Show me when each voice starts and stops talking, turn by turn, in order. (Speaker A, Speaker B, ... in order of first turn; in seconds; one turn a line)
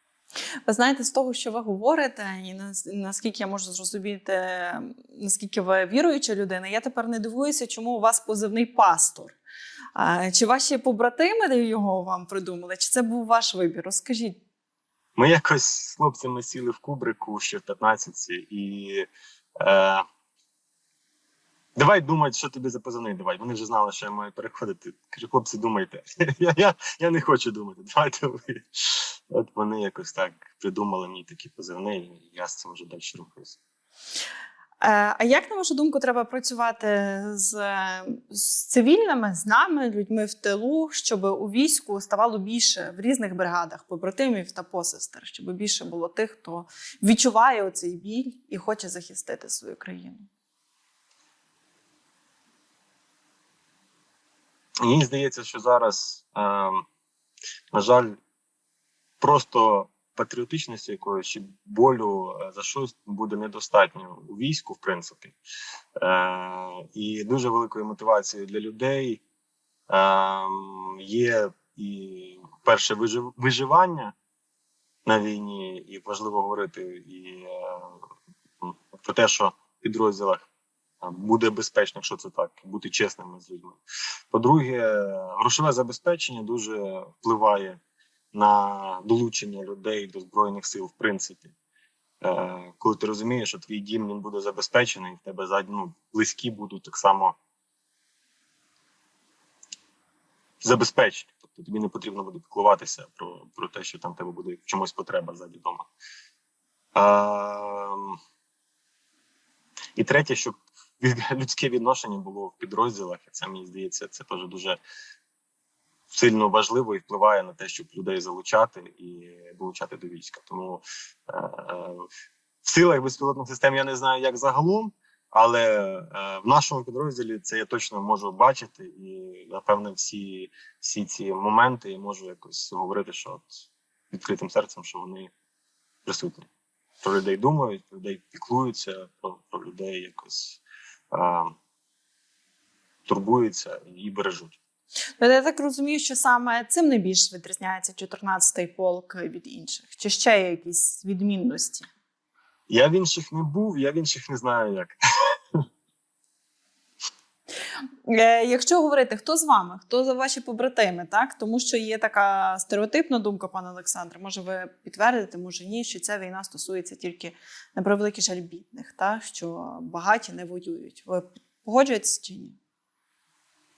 Speaker A: 0.7-9.4
Speaker A: 10.0-14.4
Speaker B: 15.2-19.1
Speaker B: 19.6-20.1
Speaker B: 21.8-33.6
Speaker A: 34.8-50.3
Speaker B: 54.8-56.8
Speaker B: 57.7-58.2
Speaker B: 59.2-65.4
Speaker B: 66.0-69.2
Speaker B: 69.9-74.1
Speaker B: 75.0-78.0
Speaker B: 78.6-80.5
Speaker B: 81.0-87.8
Speaker B: 88.3-91.5
Speaker B: 92.2-97.4
Speaker B: 100.6-105.9
Speaker B: 107.0-108.2
Speaker B: 110.0-114.8
Speaker B: 116.1-122.1
Speaker B: 122.6-135.3
Speaker B: 136.1-136.5
Speaker B: 137.0-140.6
Speaker B: 141.1-141.5
Speaker B: 143.1-144.6
Speaker A: 145.2-151.9
Speaker B: 152.7-155.6
Speaker A: 158.1-172.6